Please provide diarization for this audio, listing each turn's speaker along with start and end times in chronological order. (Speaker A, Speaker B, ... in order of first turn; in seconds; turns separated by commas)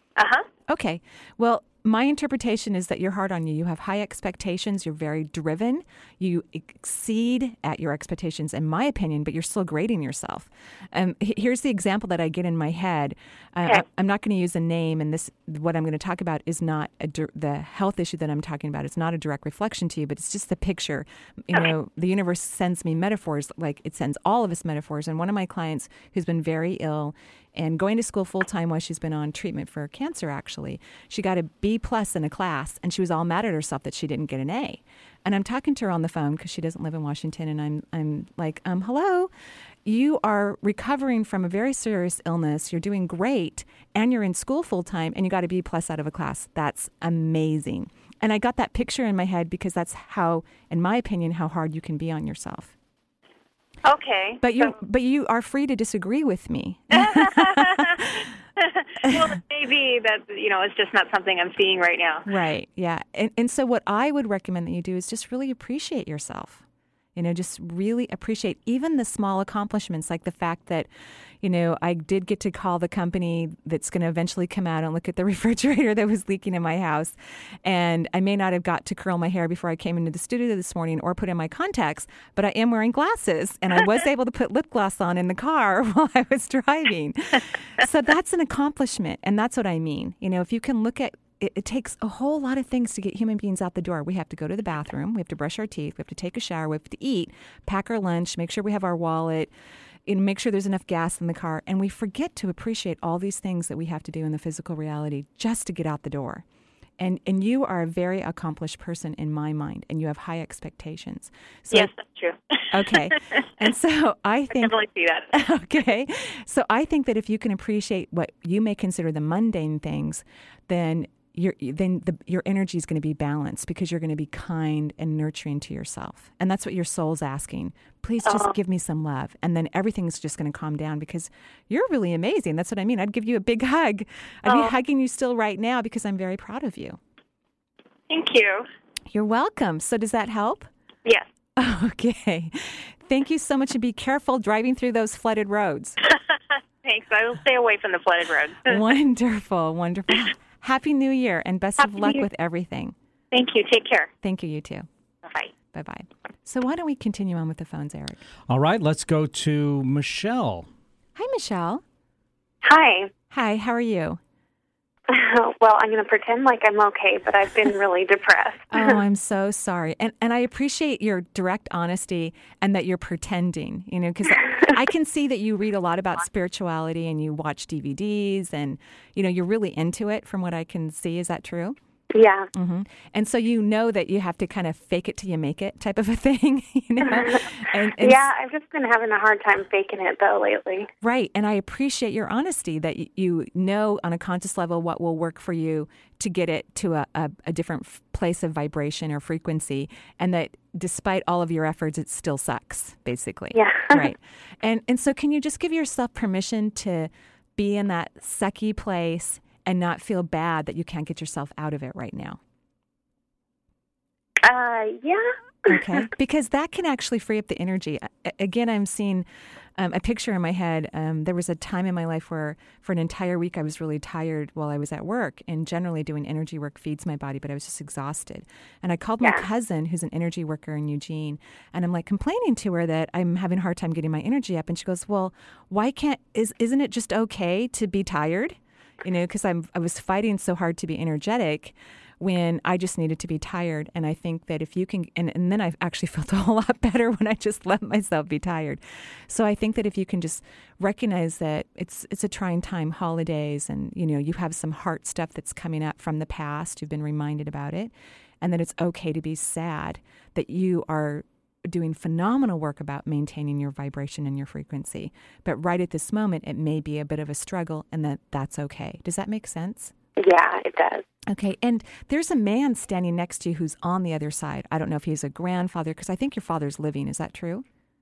Speaker A: 0.1-0.5, Speaker B: 0.7-39.3, Speaker B: 39.8-52.7, Speaker A: 53.8-54.8, Speaker B: 54.4-58.0, Speaker A: 56.9-62.3, Speaker B: 59.0-59.3, Speaker B: 62.2-66.6, Speaker B: 67.1-70.9, Speaker B: 71.4-99.5, Speaker B: 100.0-106.4, Speaker B: 107.0-111.9, Speaker A: 111.7-113.5, Speaker B: 112.7-114.8, Speaker A: 114.5-115.5, Speaker B: 115.3-137.0, Speaker A: 128.2-128.5, Speaker A: 134.4-134.8, Speaker A: 138.1-138.7, Speaker B: 139.1-140.7, Speaker B: 141.6-146.0, Speaker A: 146.8-148.9, Speaker B: 148.7-152.9, Speaker A: 151.8-152.3, Speaker A: 153.3-154.1, Speaker B: 154.2-154.9, Speaker A: 155.2-155.5, Speaker B: 155.7-158.2, Speaker C: 158.5-160.7, Speaker B: 161.2-161.8, Speaker D: 162.7-163.1, Speaker B: 163.3-164.2, Speaker D: 165.1-169.0, Speaker B: 168.7-181.8, Speaker D: 174.4-174.7, Speaker D: 182.1-182.5, Speaker B: 182.5-188.3, Speaker D: 187.0-190.9, Speaker B: 191.0-212.4, Speaker D: 203.5-204.1, Speaker D: 214.4-216.1, Speaker B: 215.7-269.9, Speaker D: 270.2-271.0, Speaker B: 271.3-277.6